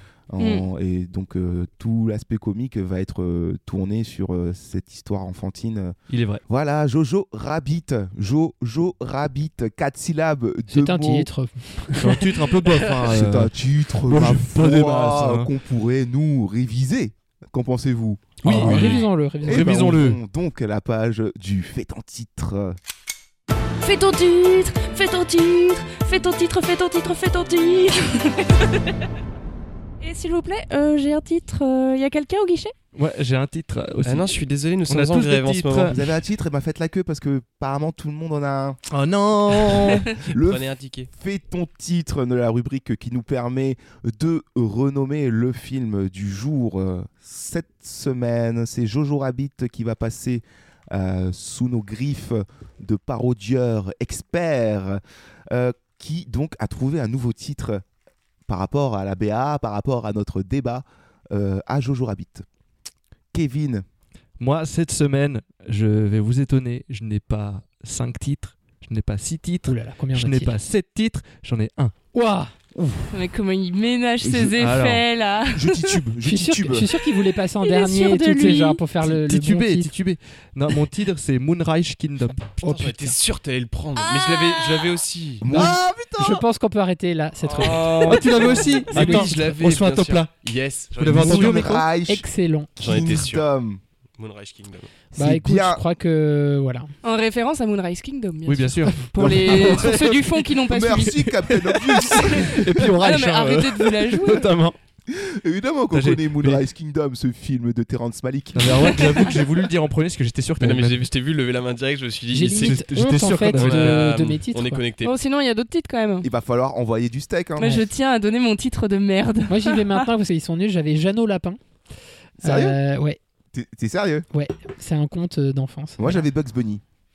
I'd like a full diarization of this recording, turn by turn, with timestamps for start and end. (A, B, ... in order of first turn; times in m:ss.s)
0:00.3-0:06.0 A
0:00.4-0:00.7 B
0:06.1-0:06.4 C
0:06.5-0:11.3 A
0:10.7-0:12.4 D
0:12.0-0:15.5 C
0:13.1-0:22.8 A
0:18.4-0:20.2 C
0:18.5-0:19.9 D
0:18.7-0:19.0 E
0:23.8-0:28.9 B
0:30.0-0:32.7 B
0:32.9-0:36.0 C
0:34.0-0:36.0 E
0:35.9-0:38.8 A
0:38.9-0:40.1 C
0:40.3-0:57.8 A
0:40.3-0:41.1 E
0:58.5-1:02.4 A
1:03.3-1:03.8 A
1:04.4-1:11.9 C
1:09.7-1:10.6 D
1:12.1-1:12.5 D
1:12.8-1:13.1 A
1:13.1-1:16.0 B
1:14.2-1:14.5 A
1:14.6-1:15.1 C
1:15.5-1:16.9 A
1:16.2-1:19.9 D
1:17.6-1:18.8 B
1:19.0-1:22.6 C
1:22.6-1:25.4 E
1:22.6-1:23.1 D
1:24.2-1:24.8 B
1:25.4-1:26.2 A
1:25.5-1:29.4 D
1:25.5-1:26.4 C
1:27.5-1:31.5 E
1:28.0-1:30.3 C
1:30.9-1:31.9 C
1:31.1-1:33.8 A
1:31.3-1:32.7 D
1:32.8-1:33.5 E
1:34.2-1:34.9 E
1:35.2-1:36.9 D
1:35.2-1:35.8 A
1:37.0-1:41.3 B
1:38.4-1:39.9 C
1:39.2-1:40.1 A
1:39.5-1:39.8 D
1:40.7-1:42.6 A
1:42.0-1:44.8 C
1:43.0-1:44.5 B
1:45.1-1:49.0 A
1:45.9-1:46.6 C
1:48.5-1:51.1 C
1:50.6-1:55.2 E
1:52.3-1:54.8 D
1:52.4-1:54.1 C
1:55.0-1:56.3 B
1:56.2-1:57.8 A
1:57.6-2:00.0 B
1:59.5-2:01.6 D
2:02.4-2:02.8 A
2:02.4-2:03.2 D
2:03.5-2:04.3 A
2:04.3-2:06.3 D
2:06.0-2:06.8 A